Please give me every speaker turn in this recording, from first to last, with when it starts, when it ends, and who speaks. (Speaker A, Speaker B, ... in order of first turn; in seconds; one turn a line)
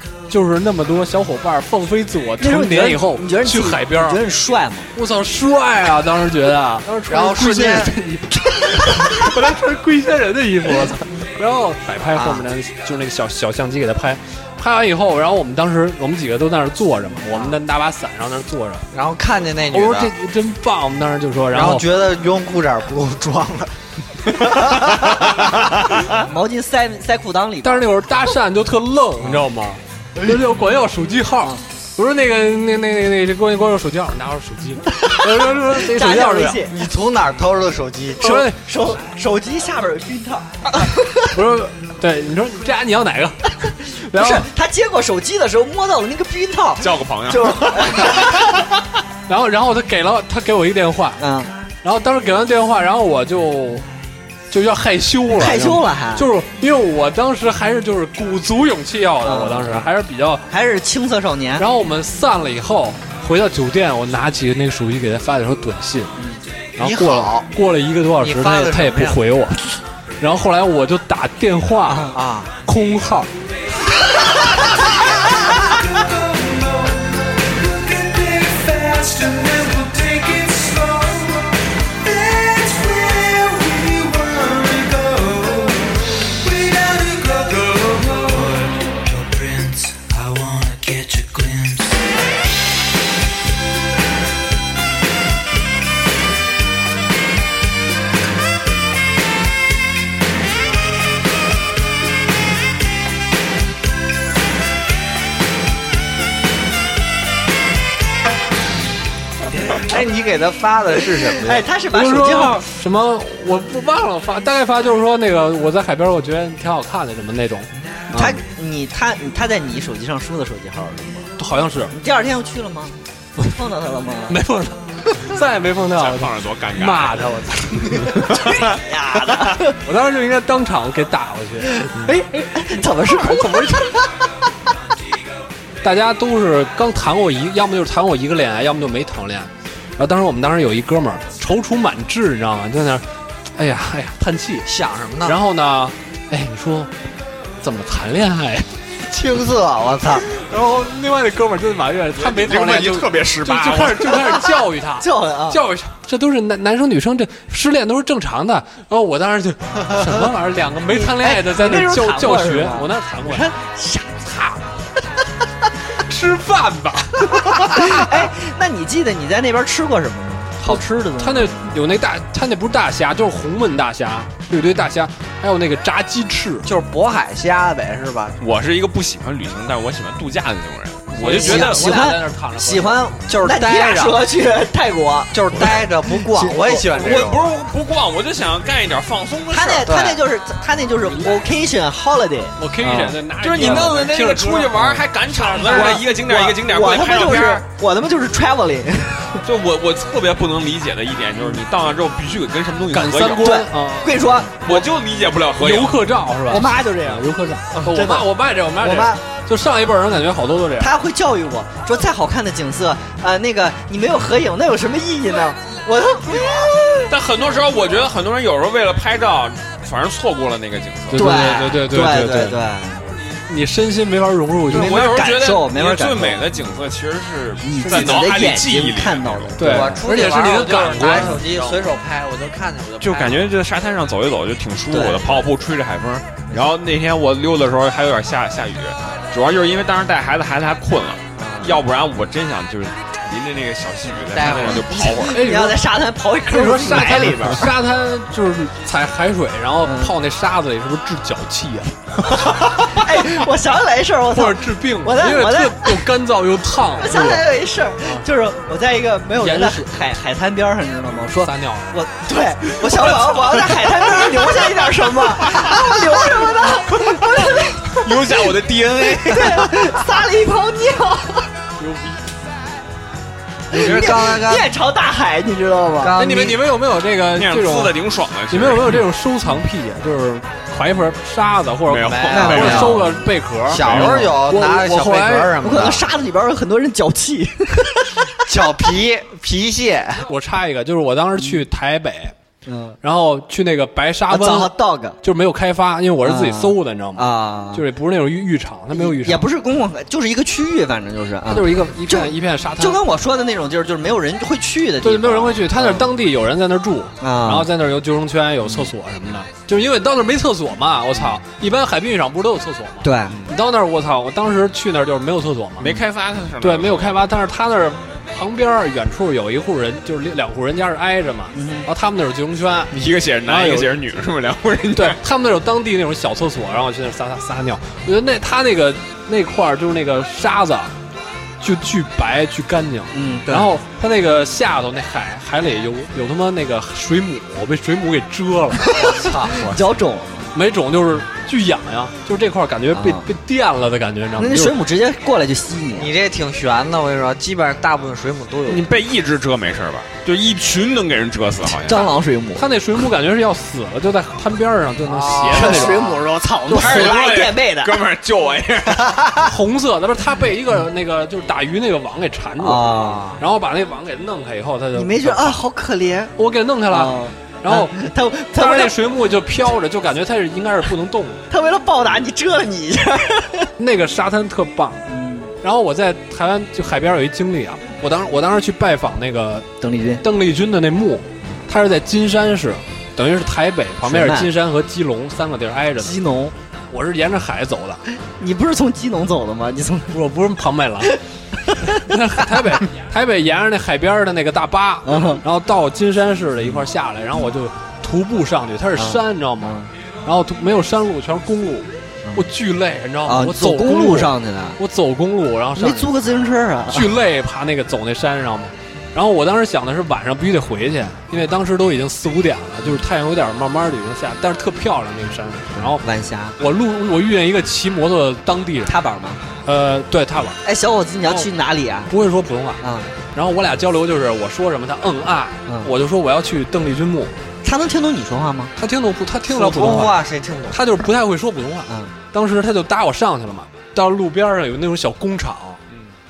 Speaker A: 0.3-4.2
Speaker B: 2.4-4.9
Speaker A: 5.0-18.9
Speaker C: 7.1-7.9
Speaker C: 12.2-12.5
Speaker C: 18.9-20.1
Speaker A: 19.7-21.9
Speaker C: 21.5-25.7
Speaker B: 26.0-27.9
Speaker A: 27.6-36.7
Speaker B: 34.9-36.7
Speaker C: 36.7-38.4
Speaker A: 38.2-38.6
Speaker B: 38.2-41.3
Speaker A: 41.3-44.5
Speaker B: 44.1-48.5
Speaker D: 46.8-48.4
Speaker A: 49.3-51.2
Speaker B: 51.2-51.5
Speaker A: 51.8-53.9
Speaker A: 54.5-60.5
Speaker B: 55.3-56.3
Speaker B: 59.2-59.9
Speaker B: 60.5-61.7
Speaker A: 61.6-66.1
Speaker A: 66.8-69.6
Speaker C: 66.8-67.5
Speaker C: 68.2-69.2
Speaker A: 70.2-72.1
Speaker B: 71.9-72.1
Speaker C: 72.1-72.5
Speaker A: 72.7-73.3
Speaker C: 109.7-111.7
Speaker B: 111.4-112.7
Speaker A: 111.9-118.4
Speaker B: 118.1-121.3
Speaker A: 121.4-121.9
Speaker B: 121.9-124.4
Speaker A: 124.3-128.6
Speaker D: 125.9-127.3
Speaker D: 127.9-128.8
Speaker B: 128.2-129.8
Speaker A: 129.5-131.9
Speaker B: 131.7-134.3
Speaker A: 133.0-133.8
Speaker A: 135.8-144.7
Speaker C: 144.7-145.4
Speaker A: 145.2-146.9
Speaker A: 147.6-148.7
Speaker C: 149.1-150.3
Speaker A: 150.3-163.5
Speaker D: 152.2-154.4
Speaker B: 155.0-155.6
Speaker B: 160.9-164.6
Speaker A: 166.0-168.2
Speaker B: 167.2-171.6
Speaker A: 170.6-176.7
Speaker C: 176.6-178.4
Speaker D: 178.4-182.0
Speaker A: 181.1-183.1
Speaker B: 181.3-186.9
Speaker C: 183.3-184.3
Speaker C: 185.3-187.5
Speaker D: 186.9-190.0
Speaker B: 189.5-193.9
Speaker C: 189.9-190.2
Speaker A: 191.1-191.4
Speaker A: 192.6-196.1
Speaker D: 193.4-197.7
Speaker B: 195.6-199.4
Speaker D: 199.4-203.6
Speaker A: 202.9-204.3
Speaker B: 203.4-204.9
Speaker D: 204.6-206.0
Speaker A: 205.6-210.9
Speaker B: 206.5-208.3
Speaker B: 208.8-209.2
Speaker B: 210.8-217.1
Speaker D: 217.1-221.4
Speaker A: 221.1-222.6
Speaker B: 221.1-223.1
Speaker A: 223.5-225.2
Speaker B: 224.7-226.5
Speaker D: 224.7-229.6
Speaker B: 227.6-230.1
Speaker A: 227.8-228.3
Speaker A: 229.6-231.5
Speaker C: 229.6-233.5
Speaker D: 231.4-231.7
Speaker D: 233.0-245.4
Speaker B: 234.9-235.5
Speaker B: 241.4-241.8
Speaker C: 244.3-244.9
Speaker B: 244.5-247.7
Speaker A: 245.3-245.8
Speaker A: 246.5-252.0
Speaker B: 249.8-250.2
Speaker B: 252.5-256.0
Speaker A: 254.3-257.5
Speaker B: 257.0-268.4
Speaker A: 259.4-260.0
Speaker A: 261.2-262.0
Speaker D: 267.4-269.7
Speaker C: 269.0-269.4
Speaker B: 269.2-271.5
Speaker A: 271.8-272.2
Speaker B: 273.7-276.2
Speaker C: 273.7-274.7
Speaker C: 276.0-276.6
Speaker A: 276.2-278.0
Speaker D: 277.3-279.0
Speaker A: 278.5-285.9
Speaker D: 281.9-283.1
Speaker C: 282.0-283.1
Speaker B: 282.3-283.0
Speaker C: 283.7-286.1
Speaker D: 283.8-284.4
Speaker B: 285.6-288.3
Speaker C: 288.4-290.3
Speaker A: 290.3-292.3
Speaker B: 292.7-293.0
Speaker A: 293.0-299.5
Speaker B: 294.3-295.2
Speaker B: 296.2-297.9
Speaker B: 298.9-306.1
Speaker A: 301.5-303.0
Speaker A: 305.0-315.9
Speaker B: 307.2-307.7
Speaker B: 313.0-313.4
Speaker D: 315.8-317.2
Speaker A: 316.6-324.0
Speaker B: 321.5-321.9
Speaker D: 322.9-325.2
Speaker A: 324.9-330.9
Speaker A: 331.6-338.8
Speaker B: 333.1-333.7
Speaker B: 338.9-340.5
Speaker C: 339.0-339.8
Speaker A: 340.5-344.8
Speaker B: 342.9-343.3
Speaker B: 344.4-346.1
Speaker C: 346.0-348.9
Speaker D: 348.7-352.1
Speaker B: 351.8-352.6
Speaker A: 352.6-356.1
Speaker C: 355.0-356.1
Speaker B: 355.5-358.0
Speaker D: 356.7-359.4
Speaker A: 356.7-357.2
Speaker A: 359.4-365.6
Speaker B: 362.6-363.4
Speaker B: 364.9-366.3
Speaker A: 366.4-367.9
Speaker B: 366.9-369.0
Speaker A: 368.5-371.4
Speaker B: 371.5-373.7
Speaker A: 373.8-375.0
Speaker B: 375.1-375.5
Speaker A: 375.6-379.7
Speaker B: 379.8-380.2
Speaker A: 380.2-386.2
Speaker B: 384.0-384.5
Speaker B: 386.0-386.5
Speaker A: 386.9-388.0
Speaker B: 388.3-390.2
Speaker A: 390.1-391.1
Speaker B: 391.0-392.1
Speaker A: 391.9-406.1
Speaker B: 395.1-395.4
Speaker B: 399.0-399.9
Speaker B: 403.2-404.8
Speaker B: 405.8-407.1
Speaker A: 406.9-416.0
Speaker B: 415.8-416.6
Speaker A: 416.6-418.9
Speaker B: 418.9-419.4
Speaker A: 419.6-420.6
Speaker B: 420.6-422.1
Speaker A: 422.1-422.8
Speaker B: 422.8-423.1
Speaker A: 423.3-427.4
Speaker B: 427.6-428.7
Speaker A: 428.8-430.2
Speaker C: 429.5-430.8
Speaker A: 430.7-435.8
Speaker B: 431.9-432.1